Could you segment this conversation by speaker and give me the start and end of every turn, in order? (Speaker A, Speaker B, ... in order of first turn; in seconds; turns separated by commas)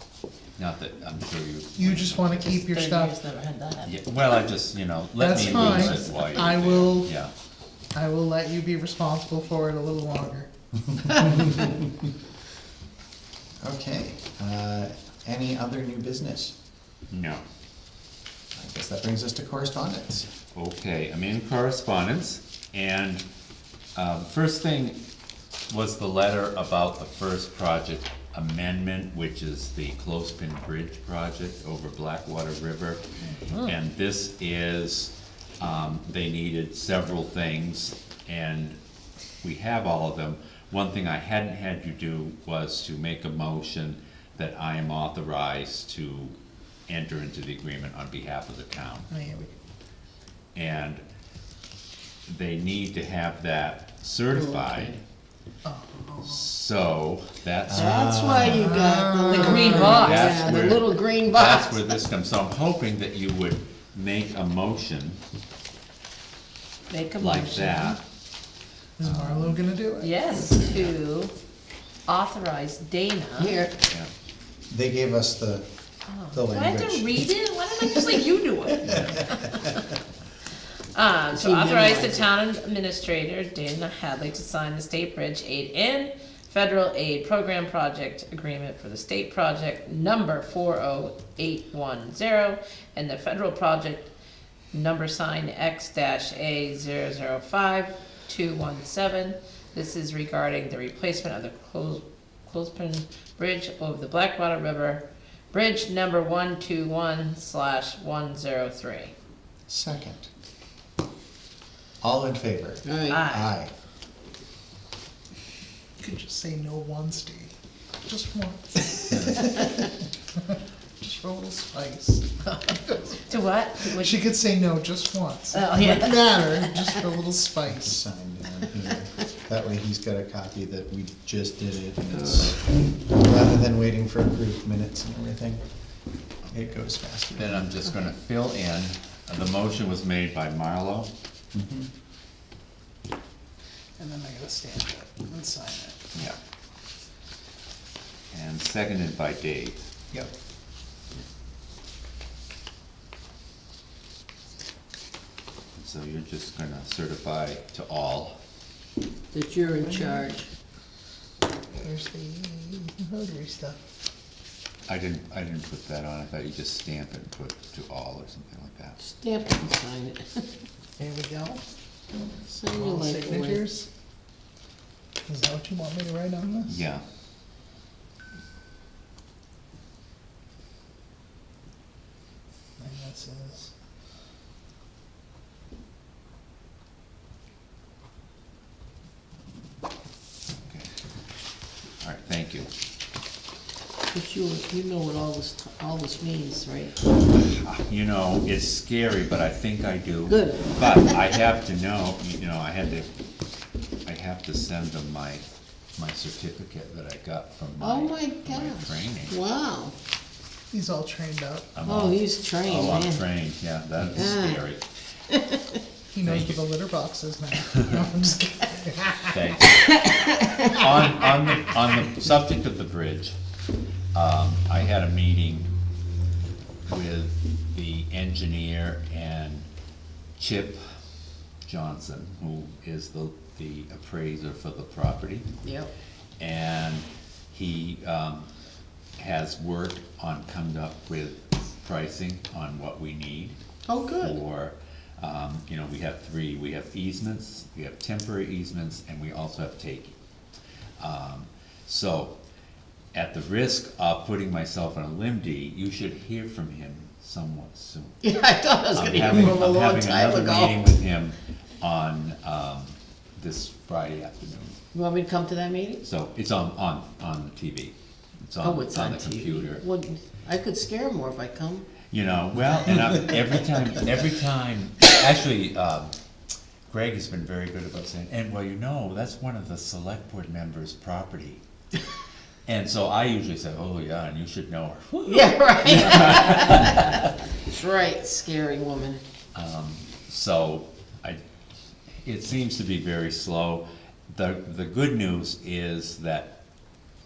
Speaker A: 0.6-2.5, Speaker B: 1.8-3.2, Speaker C: 2.5-3.9, Speaker A: 3.8-7.3, Speaker B: 5.2-7.1, Speaker B: 7.9-10.5, Speaker D: 13.6-16.5, Speaker A: 17.1-17.4, Speaker D: 18.5-20.3, Speaker A: 20.5-23.2, Speaker A: 23.9-25.0, Speaker A: 25.7-33.0, Speaker A: 33.5-38.8, Speaker A: 39.4-46.4, Speaker A: 46.9-49.1, Speaker B: 49.1-49.5, Speaker A: 50.5-51.0, Speaker A: 52.3-55.0, Speaker C: 54.3-55.0, Speaker B: 55.6-56.5, Speaker A: 56.2-58.1, Speaker D: 57.7-58.8, Speaker C: 57.7-61.9, Speaker B: 58.5-60.3, Speaker E: 59.3-60.5, Speaker A: 59.8-65.2, Speaker E: 66.9-67.9, Speaker A: 67.2-68.0, Speaker B: 69.0-70.2, Speaker A: 69.0-69.6, Speaker E: 70.0-71.3, Speaker A: 70.6-70.9, Speaker E: 72.1-73.6, Speaker C: 73.4-73.8, Speaker D: 74.7-75.7, Speaker E: 76.1-79.9, Speaker D: 76.3-78.2, Speaker A: 78.8-79.2, Speaker D: 78.9-79.1, Speaker E: 81.0-94.1, Speaker C: 81.3-82.3, Speaker E: 94.7-109.1, Speaker D: 109.7-110.3, Speaker D: 112.0-113.7, Speaker C: 112.8-113.2, Speaker E: 113.1-113.5, Speaker B: 116.0-117.5, Speaker B: 118.0-123.2, Speaker E: 123.3-124.2, Speaker B: 123.8-127.9, Speaker E: 125.5-126.8, Speaker D: 127.8-135.6, Speaker C: 132.2-132.5, Speaker D: 136.5-137.6, Speaker A: 137.3-141.1, Speaker D: 141.5-141.9, Speaker B: 144.0-146.1, Speaker A: 148.3-149.8, Speaker A: 155.8-158.4, Speaker C: 159.3-160.5, Speaker B: 159.8-160.3, Speaker B: 161.8-163.8, Speaker A: 164.9-169.0, Speaker C: 169.0-170.5, Speaker B: 171.0-171.6, Speaker C: 172.5-173.7, Speaker B: 172.7-173.9, Speaker B: 175.3-176.8, Speaker A: 176.7-177.0, Speaker B: 182.8-183.7, Speaker A: 190.7-190.9, Speaker A: 192.0-192.7, Speaker C: 194.1-196.9, Speaker A: 197.2-203.1, Speaker C: 200.3-201.2, Speaker A: 204.1-205.4, Speaker A: 206.0-209.4, Speaker C: 207.8-209.9, Speaker B: 210.7-211.8, Speaker A: 211.8-214.8, Speaker C: 211.8-213.2, Speaker C: 214.1-214.6, Speaker C: 215.3-215.8, Speaker B: 216.1-219.3, Speaker A: 216.2-216.6, Speaker A: 217.7-218.0, Speaker A: 219.2-220.0, Speaker C: 219.8-220.7, Speaker A: 220.6-223.3, Speaker A: 224.1-225.7, Speaker A: 226.9-229.7, Speaker A: 230.4-230.8, Speaker A: 231.7-235.5, Speaker C: 235.6-235.9, Speaker A: 236.4-238.5, Speaker A: 239.2-243.6, Speaker C: 243.9-244.4, Speaker A: 244.2-250.2, Speaker A: 251.0-252.4, Speaker A: 253.1-258.3, Speaker C: 258.2-260.9, Speaker A: 258.9-264.8, Speaker C: 264.9-266.0, Speaker A: 266.0-269.9, Speaker C: 268.6-271.9, Speaker A: 272.1-276.1, Speaker A: 276.9-281.6, Speaker A: 282.7-287.3, Speaker C: 285.3-289.2, Speaker A: 289.5-291.4, Speaker A: 292.2-296.5